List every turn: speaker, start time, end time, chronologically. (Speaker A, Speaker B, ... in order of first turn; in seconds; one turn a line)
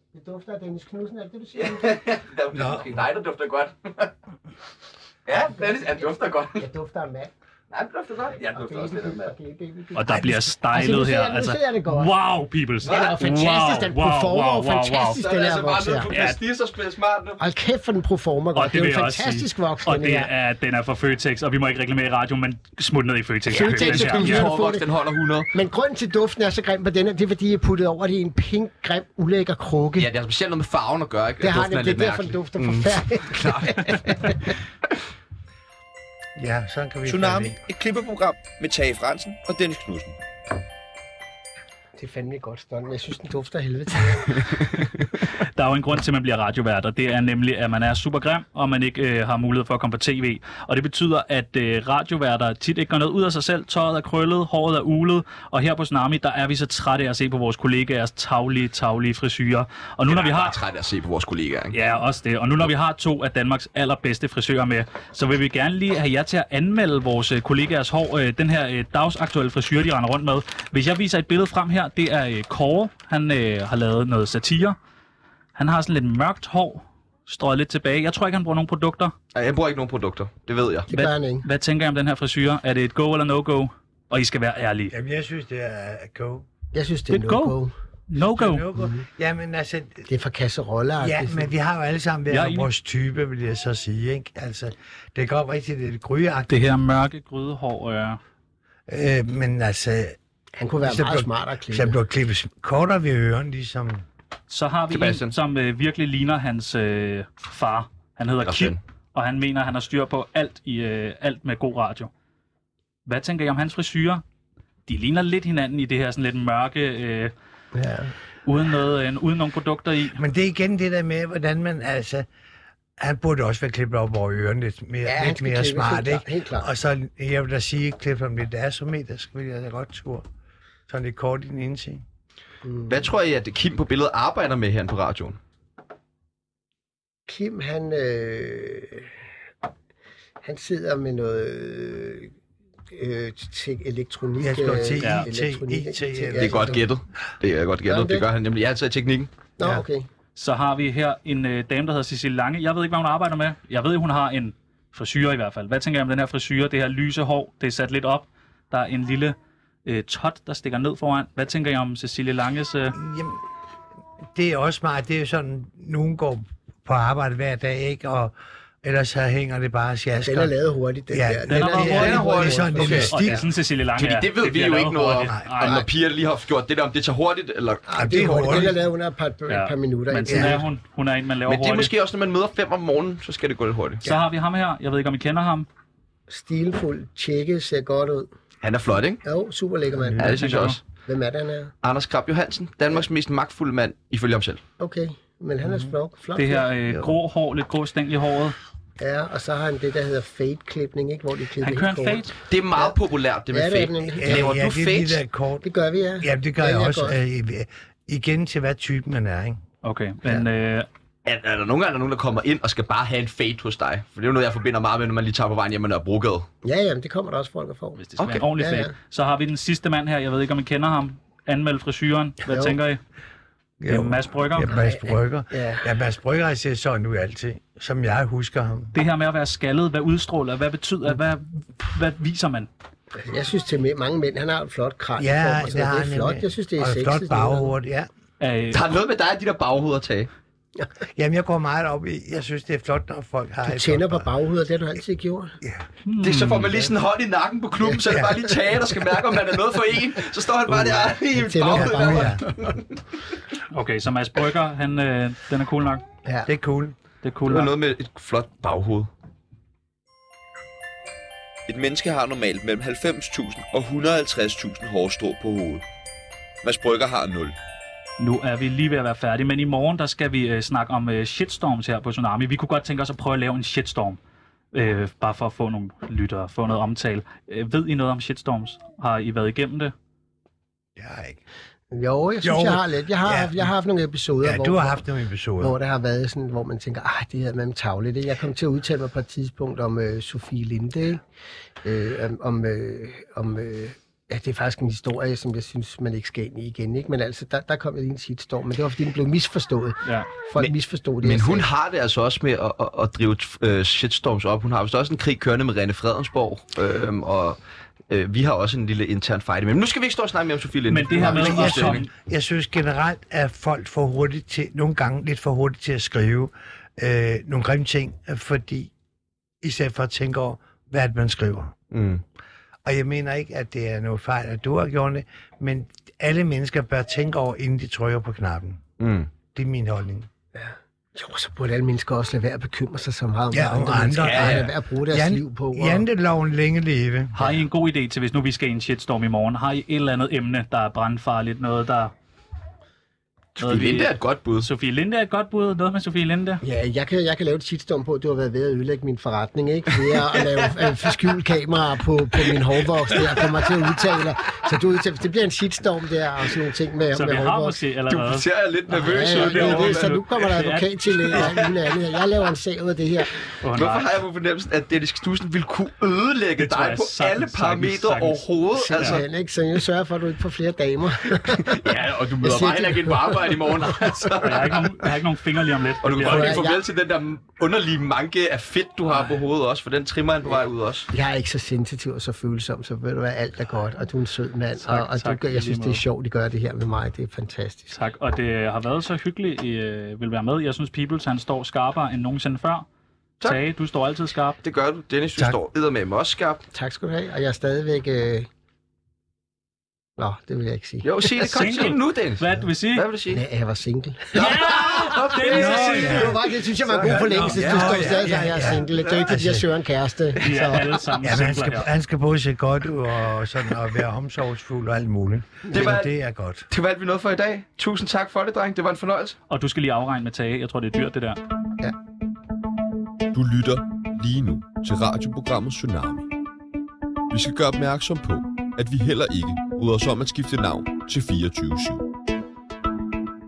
Speaker A: 0.1-2.0
Speaker B: 1.6-4.1
Speaker C: 2.5-3.0
Speaker B: 5.2-6.7
Speaker A: 5.3-7.3
Speaker B: 7.7-9.3
Speaker A: 8.3-12.1
Speaker D: 9.9-15.2
Speaker A: 12.8-16.1
Speaker B: 12.8-13.2
Speaker B: 15.1-17.4
Speaker D: 16.1-16.4
Speaker A: 17.4-20.3
Speaker D: 18.5-24.5
Speaker A: 23.5-24.9
Speaker B: 23.6-25.5
Speaker A: 25.5-30.1
Speaker B: 30.0-34.5
Speaker A: 31.4-34.5
Speaker C: 36.4-37.6
Speaker E: 37.0-40.2
Speaker A: 42.0-44.6
Speaker D: 45.4-60.6
Speaker B: 60.1-61.8
Speaker D: 61.7-74.8
Speaker D: 75.5-79.1
Speaker B: 79.3-80.9
Speaker A: 80.9-81.5
Speaker D: 80.9-84.9
Speaker C: 84.9-86.5
Speaker A: 86.7-87.7
Speaker D: 87.1-87.6
Speaker D: 88.1-88.7
Speaker C: 88.2-90.1
Speaker A: 88.7-89.0
Speaker A: 90.1-91.5
Speaker C: 91.0-96.6
Speaker D: 92.3-92.7
Speaker D: 96.5-98.2
Speaker C: 98.9-100.2
Speaker A: 100.6-102.0
Speaker C: 100.8-104.0
Speaker D: 104.5-112.1
Speaker B: 104.9-105.3
Speaker B: 108.4-108.8
Speaker D: 113.0-114.2
Speaker D: 114.9-117.3
Speaker A: 117.7-118.1
Speaker D: 118.4-120.2
Speaker C: 120.2-122.3
Speaker C: 123.0-130.2
Speaker A: 125.0-126.7
Speaker C: 130.9-132.0
Speaker A: 132.6-133.1
Speaker B: 132.9-135.4
Speaker A: 137.3-139.2
Speaker A: 140.4-142.3
Speaker A: 142.9-146.8
Speaker C: 144.4-146.8
Speaker D: 145.0-145.3
Speaker B: 146.4-149.3
Speaker A: 147.8-148.3
Speaker A: 149.6-150.1
Speaker D: 150.3-159.3
Speaker D: 159.8-162.9
Speaker C: 162.9-163.4
Speaker C: 164.3-170.5
Speaker A: 170.2-173.4
Speaker C: 171.1-173.4
Speaker D: 171.5-175.8
Speaker B: 171.9-173.1
Speaker B: 174.0-178.7
Speaker C: 175.2-175.5
Speaker A: 177.9-180.6
Speaker C: 177.9-178.8
Speaker D: 179.5-181.9
Speaker C: 180.3-180.6
Speaker B: 181.5-184.1
Speaker D: 184.0-185.7
Speaker A: 186.3-188.3
Speaker B: 188.6-189.2
Speaker A: 189.2-190.3
Speaker B: 190.2-190.8
Speaker D: 190.2-190.8
Speaker A: 191.1-191.7
Speaker B: 191.8-194.6
Speaker A: 194.8-197.1
Speaker C: 195.7-195.9
Speaker D: 196.3-198.6
Speaker A: 199.0-202.2
Speaker D: 201.6-202.3
Speaker B: 202.5-205.2
Speaker A: 203.5-204.5
Speaker C: 204.2-205.7
Speaker A: 205.6-207.2
Speaker C: 206.2-209.6
Speaker D: 209.8-210.9
Speaker B: 211.2-216.5
Speaker A: 216.6-218.0
Speaker D: 218.0-223.0
Speaker B: 218.2-218.4
Speaker A: 218.6-218.9
Speaker A: 222.4-222.8
Speaker C: 223.8-228.9
Speaker D: 223.9-224.8
Speaker A: 224.7-225.9
Speaker D: 228.9-232.7
Speaker A: 233.2-237.7
Speaker C: 235.2-238.1
Speaker D: 238.4-238.8
Speaker B: 238.7-240.3
Speaker C: 241.1-244.2
Speaker A: 243.6-245.6
Speaker C: 245.6-245.9
Speaker D: 246.0-246.7
Speaker B: 246.2-253.0
Speaker A: 247.8-248.6
Speaker A: 250.7-252.4
Speaker C: 251.7-252.4
Speaker D: 253.7-256.0
Speaker A: 256.2-256.5
Speaker C: 256.4-256.9
Speaker D: 257.2-257.7
Speaker B: 257.5-259.1
Speaker E: 261.7-265.8
Speaker E: 266.6-267.6
Speaker D: 268.2-274.2
Speaker D: 274.7-279.9
Speaker C: 281.0-281.4
Speaker A: 281.9-285.0
Speaker C: 282.4-283.7
Speaker C: 284.4-285.8
Speaker A: 285.6-291.2
Speaker A: 291.8-301.7
Speaker B: 300.6-307.6
Speaker B: 308.1-312.0
Speaker D: 310.9-312.1
Speaker C: 311.1-318.9
Speaker C: 319.6-321.7
Speaker B: 321.9-322.2
Speaker C: 322.8-328.8
Speaker B: 329.0-329.3
Speaker C: 329.4-330.3
Speaker A: 330.5-336.1
Speaker C: 333.5-337.3
Speaker B: 334.2-334.7
Speaker D: 337.3-342.1
Speaker B: 343.6-344.7
Speaker D: 343.6-346.6
Speaker A: 346.6-357.8
Speaker D: 357.1-358.4
Speaker B: 358.1-360.2
Speaker A: 358.9-363.3
Speaker D: 359.0-361.6
Speaker B: 361.3-361.7
Speaker D: 363.6-364.1
Speaker B: 363.7-369.2
Speaker D: 366.6-368.4
Speaker A: 368.7-374.6
Speaker B: 371.5-374.9
Speaker D: 374.4-376.6
Speaker B: 376.0-381.1
Speaker A: 376.2-376.8
Speaker A: 380.4-387.9
Speaker D: 384.8-386.0
Speaker D: 387.9-392.9
Speaker D: 393.4-394.6
Speaker B: 394.6-396.6
Speaker A: 396.7-398.5
Speaker A: 400.2-401.8
Speaker B: 401.0-403.4
Speaker D: 401.4-403.1
Speaker A: 403.3-404.7
Speaker D: 404.3-406.3
Speaker B: 404.3-408.4
Speaker A: 405.5-410.8
Speaker C: 405.5-409.6
Speaker D: 410.4-411.9
Speaker C: 410.4-416.7
Speaker B: 415.7-416.1
Speaker B: 416.7-419.4
Speaker D: 419.5-421.4
Speaker E: 423.3-426.3
Speaker E: 427.3-432.0